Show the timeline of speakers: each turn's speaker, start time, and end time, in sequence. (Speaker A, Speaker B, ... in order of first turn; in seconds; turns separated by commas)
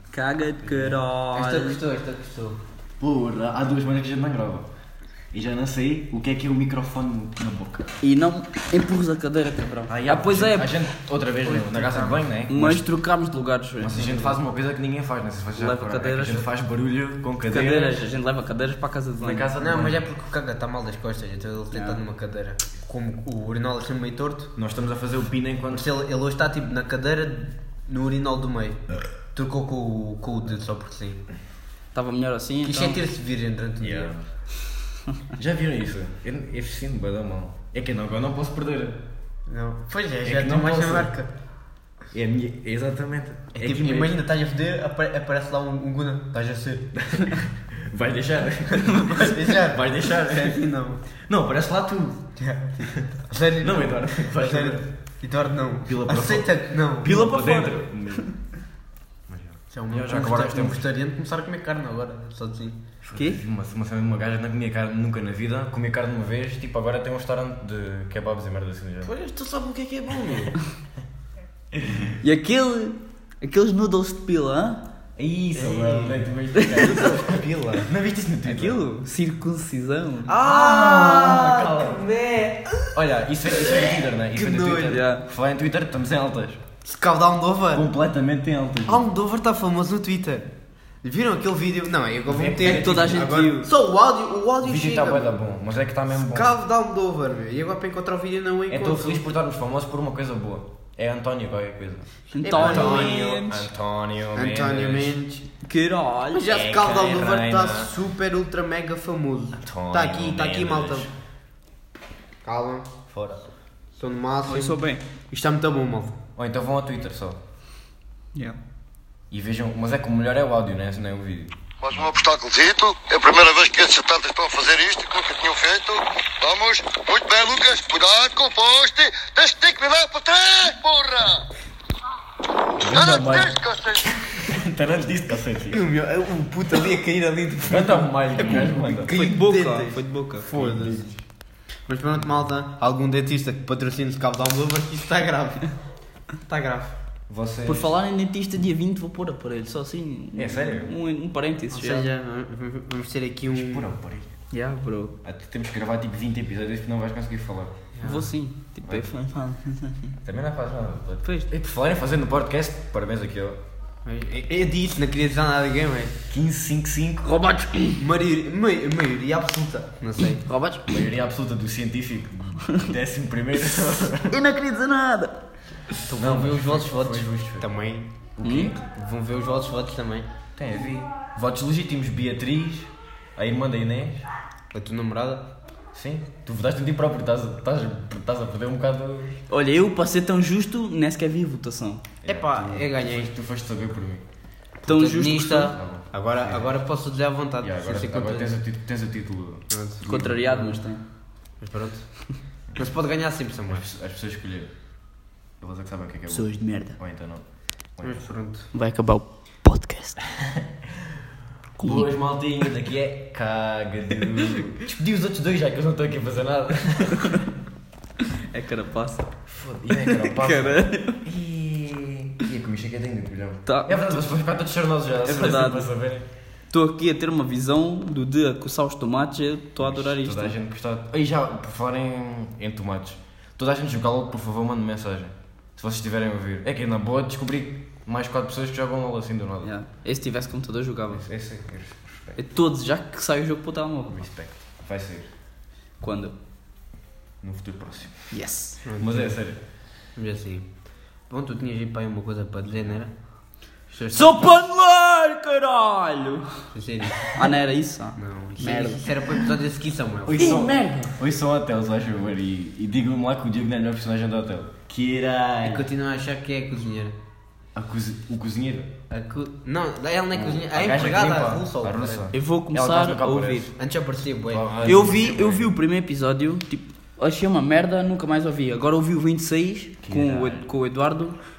Speaker A: 0.1-1.8, Speaker B: 0.7-2.6, Speaker C: 3.0-4.7, Speaker C: 5.3-7.9, Speaker A: 8.0-10.8, Speaker C: 9.9-12.8, Speaker B: 11.4-12.2, Speaker A: 12.5-14.4, Speaker C: 13.8-18.0, Speaker A: 15.6-16.5, Speaker A: 17.5-19.5, Speaker C: 19.2-20.1, Speaker B: 19.6-24.5, Speaker A: 21.7-22.0, Speaker C: 24.6-25.9, Speaker B: 25.7-31.2, Speaker A: 31.9-33.0, Speaker B: 32.6-34.1, Speaker C: 33.8-34.2, Speaker C: 35.4-39.0, Speaker B: 39.5-41.3, Speaker C: 40.2-41.1, Speaker C: 42.1-44.2, Speaker B: 43.5-46.9, Speaker C: 46.9-50.6, Speaker B: 48.8-51.0, Speaker C: 51.3-52.3, Speaker B: 52.4-57.1, Speaker C: 52.8-53.1, Speaker C: 53.6-54.9, Speaker C: 55.9-58.3, Speaker A: 57.0-58.3, Speaker C: 59.3-60.8, Speaker B: 59.7-62.8, Speaker C: 63.0-69.1, Speaker A: 63.1-63.4, Speaker B: 69.0-70.6, Speaker C: 71.7-72.2, Speaker A: 72.2-74.8, Speaker C: 75.2-78.8, Speaker B: 75.5-76.2, Speaker A: 76.5-77.1, Speaker B: 76.8-77.9, Speaker A: 78.5-81.4, Speaker B: 80.3-82.9, Speaker C: 80.4-82.0, Speaker C: 82.9-86.6, Speaker B: 83.5-85.0, Speaker A: 84.9-85.2, Speaker B: 86.8-87.9, Speaker C: 87.7-89.0, Speaker B: 88.9-90.5, Speaker B: 91.0-95.3, Speaker C: 92.3-93.4, Speaker A: 92.6-93.7, Speaker C: 94.6-96.5, Speaker B: 96.2-99.3, Speaker C: 98.7-105.2, Speaker A: 102.3-103.7, Speaker B: 102.4-103.5, Speaker B: 104.3-105.5, Speaker A: 105.6-106.5, Speaker B: 106.3-111.1, Speaker C: 106.5-107.9, Speaker C: 109.6-111.1, Speaker B: 112.4-112.9, Speaker C: 113.1-113.5, Speaker B: 113.9-116.1, Speaker A: 114.5-115.0, Speaker C: 116.4-117.4, Speaker C: 119.3-122.2, Speaker D: 121.8-131.4, Speaker C: 132.8-135.8, Speaker D: 132.9-133.9, Speaker B: 135.7-141.1, Speaker C: 137.6-139.2, Speaker A: 138.5-140.5, Speaker C: 140.5-141.2, Speaker B: 141.9-145.8, Speaker B: 146.5-146.9, Speaker C: 147.3-147.9, Speaker A: 147.7-152.1, Speaker C: 150.3-150.9, Speaker B: 151.7-153.9, Speaker C: 153.5-154.3, Speaker A: 154.5-155.2, Speaker C: 155.2-157.8, Speaker B: 157.9-158.3, Speaker A: 158.0-160.1, Speaker C: 160.2-163.6, Speaker B: 164.1-166.2, Speaker C: 166.3-167.4, Speaker A: 167.3-168.0, Speaker B: 168.0-170.4, Speaker A: 170.4-170.9, Speaker C: 170.9-174.4, Speaker A: 174.3-175.4, Speaker B: 176.1-178.2, Speaker C: 176.2-177.7, Speaker C: 178.4-178.7, Speaker A: 178.4-178.7, Speaker B: 178.7-180.3, Speaker C: 180.6-184.3, Speaker B: 184.7-185.5, Speaker C: 185.9-189.4, Speaker A: 189.5-192.0, Speaker C: 192.2-194.2, Speaker B: 192.3-193.3, Speaker A: 194.8-195.8, Speaker B: 194.8-198.6, Speaker C: 195.7-196.8, Speaker C: 197.6-200.7, Speaker B: 199.7-200.1, Speaker A: 200.0-201.0, Speaker B: 201.6-202.1, Speaker B: 202.8-203.8, Speaker C: 203.7-204.7, Speaker C: 205.6-208.3, Speaker A: 206.3-207.0, Speaker B: 208.0-208.7, Speaker A: 208.7-210.2, Speaker A: 211.8-212.1, Speaker C: 211.8-217.4, Speaker A: 218.5-219.3, Speaker C: 219.5-226.2, Speaker A: 219.9-221.2, Speaker A: 223.7-224.2, Speaker A: 225.2-225.9, Speaker A: 226.7-230.5, Speaker C: 229.8-239.7, Speaker A: 239.6-241.2, Speaker C: 241.1-242.4, Speaker A: 242.4-244.2, Speaker C: 244.1-245.3, Speaker A: 246.0-246.3, Speaker C: 247.4-248.4, Speaker A: 248.3-248.8, Speaker B: 248.8-249.4, Speaker C: 249.0-249.6, Speaker B: 250.2-250.7, Speaker B: 251.3-253.1, Speaker B: 253.9-254.5, Speaker A: 254.1-256.4, Speaker B: 256.7-257.4, Speaker A: 257.2-259.1, Speaker B: 258.2-260.6, Speaker C: 260.3-265.9, Speaker A: 260.4-261.1, Speaker B: 265.6-267.1, Speaker C: 267.8-268.9, Speaker B: 269.1-272.3, Speaker C: 270.3-273.7, Speaker A: 272.3-273.7, Speaker B: 273.8-274.6, Speaker C: 274.5-275.8, Speaker A: 274.8-281.4, Speaker C: 280.0-280.7